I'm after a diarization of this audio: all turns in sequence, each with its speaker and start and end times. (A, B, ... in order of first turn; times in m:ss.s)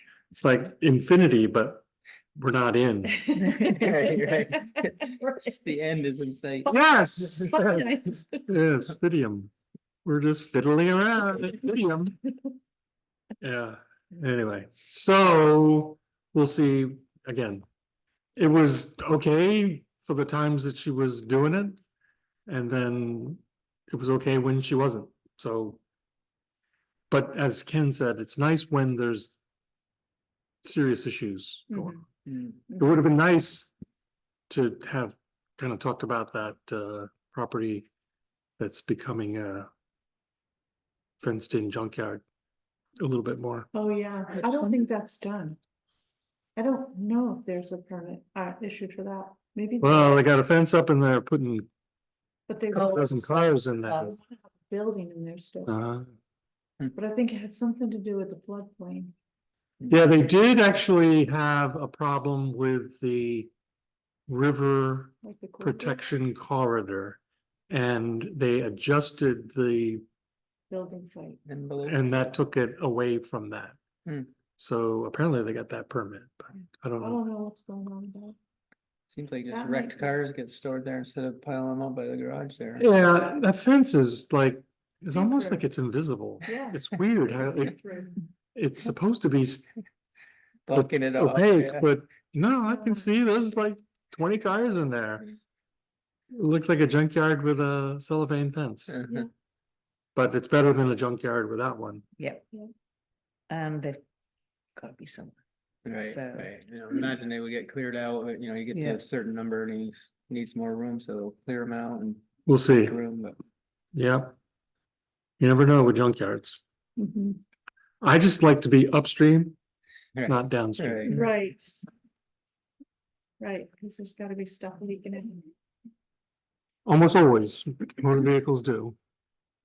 0:00.3-0:03.3 A
0:03.1-0:05.6 B
0:03.5-0:07.5 C
0:06.7-0:09.5 A
0:07.4-0:08.5 B
0:10.0-0:12.2 A
0:13.4-0:17.6 A
0:18.4-0:21.8 A
0:22.5-0:25.8 A
0:27.1-0:29.3 A
0:30.6-0:32.0 A
0:31.7-0:32.0 B
0:32.3-0:32.6 C
0:32.8-0:33.7 A
0:34.5-0:37.9 A
0:38.6-0:39.7 A
0:41.2-0:42.2 A
0:43.0-0:43.7 A
0:43.7-0:45.6 B
0:46.6-0:50.2 B
0:49.8-0:51.7 A
0:52.5-0:55.7 B
0:52.7-0:53.1 D
0:52.7-0:54.2 A
0:53.8-0:54.1 D
0:55.7-0:56.1 A
0:57.0-0:59.1 B
0:59.8-1:00.1 C
0:59.9-1:03.5 A
1:04.3-1:10.0 A
1:05.2-1:06.0 B
1:10.7-1:11.4 B
1:11.4-1:12.3 C
1:11.8-1:13.8 A
1:14.0-1:14.3 C
1:14.6-1:17.2 A
1:17.0-1:18.4 B
1:19.1-1:22.9 C
1:19.5-1:20.1 B
1:22.8-1:27.8 A
1:25.1-1:25.6 B
1:26.4-1:28.2 B
1:28.6-1:29.7 A
1:30.7-1:31.9 C
1:30.7-1:35.3 A
1:32.5-1:33.1 B
1:36.3-1:38.9 A
1:38.9-1:39.3 C
1:40.2-1:42.0 A
1:42.2-1:42.4 D
1:43.5-1:44.0 D
1:44.8-1:45.4 D
1:45.8-1:53.4 C
1:45.9-1:47.0 D
1:48.7-1:49.0 D
1:52.5-1:53.0 A
1:54.0-1:54.4 A
1:55.4-1:56.6 A
1:57.0-1:57.4 B
1:58.0-1:59.6 A
2:00.2-2:01.3 C
2:00.3-2:01.2 A
2:01.1-2:01.7 B
2:03.4-2:05.5 B
2:06.8-2:09.0 A